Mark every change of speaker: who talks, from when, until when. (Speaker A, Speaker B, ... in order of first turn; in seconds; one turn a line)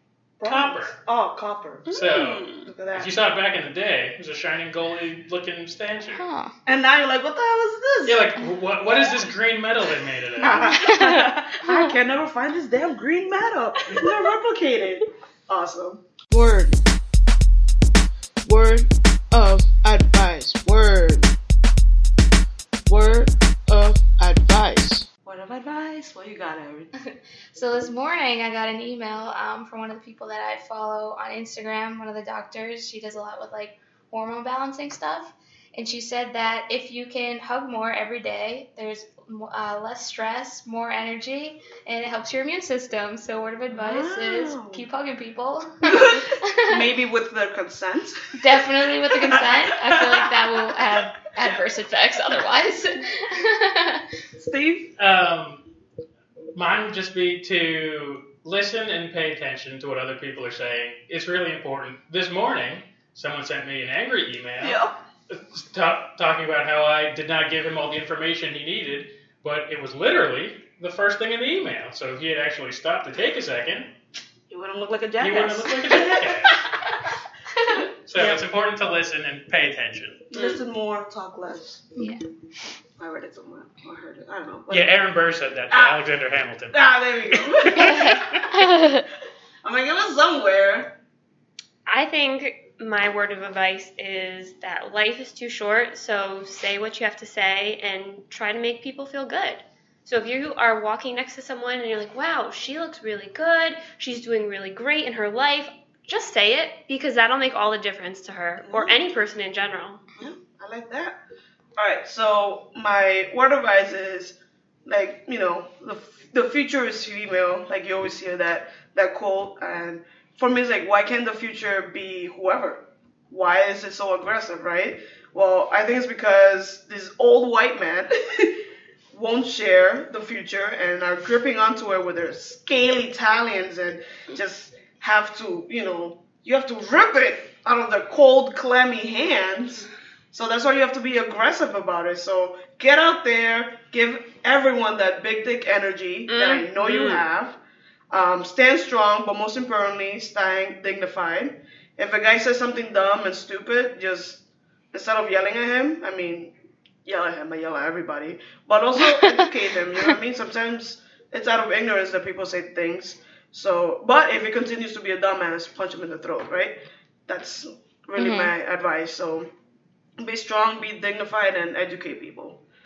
Speaker A: 0.4-2.0
Speaker B: 0.5-1.0
Speaker C: 1.9-2.7
Speaker B: 1.9-6.2
Speaker A: 2.6-3.1
Speaker D: 6.1-6.5
Speaker A: 6.7-8.4
Speaker B: 8.1-10.9
Speaker A: 10.4-16.0
Speaker D: 10.6-11.9
Speaker E: 16.3-16.8
Speaker E: 18.4-21.3
Speaker E: 22.9-25.1
Speaker A: 25.2-26.9
Speaker D: 27.5-46.8
Speaker A: 43.7-44.9
Speaker A: 45.9-48.4
Speaker D: 48.4-54.0
Speaker A: 49.1-50.3
Speaker A: 54.4-54.9
Speaker B: 55.0-55.6
Speaker B: 56.5-73.9
Speaker A: 64.6-65.0
Speaker A: 74.5-77.1
Speaker B: 75.2-76.6
Speaker B: 78.1-80.3
Speaker A: 78.1-78.4
Speaker A: 80.3-82.1
Speaker C: 80.3-80.6
Speaker D: 82.0-82.2
Speaker A: 83.0-85.0
Speaker B: 84.7-86.8
Speaker A: 85.7-86.0
Speaker A: 86.7-88.7
Speaker B: 87.3-88.4
Speaker D: 87.7-89.1
Speaker A: 89.6-91.0
Speaker C: 91.9-110.1
Speaker A: 108.7-109.0
Speaker A: 110.2-111.2
Speaker A: 111.8-128.6
Speaker A: 129.1-147.6
Speaker C: 146.3-147.2
Speaker A: 148.1-156.5
Speaker A: 157.1-166.8
Speaker D: 159.1-159.5
Speaker A: 167.3-169.5
Speaker D: 168.2-168.5
Speaker A: 170.2-172.6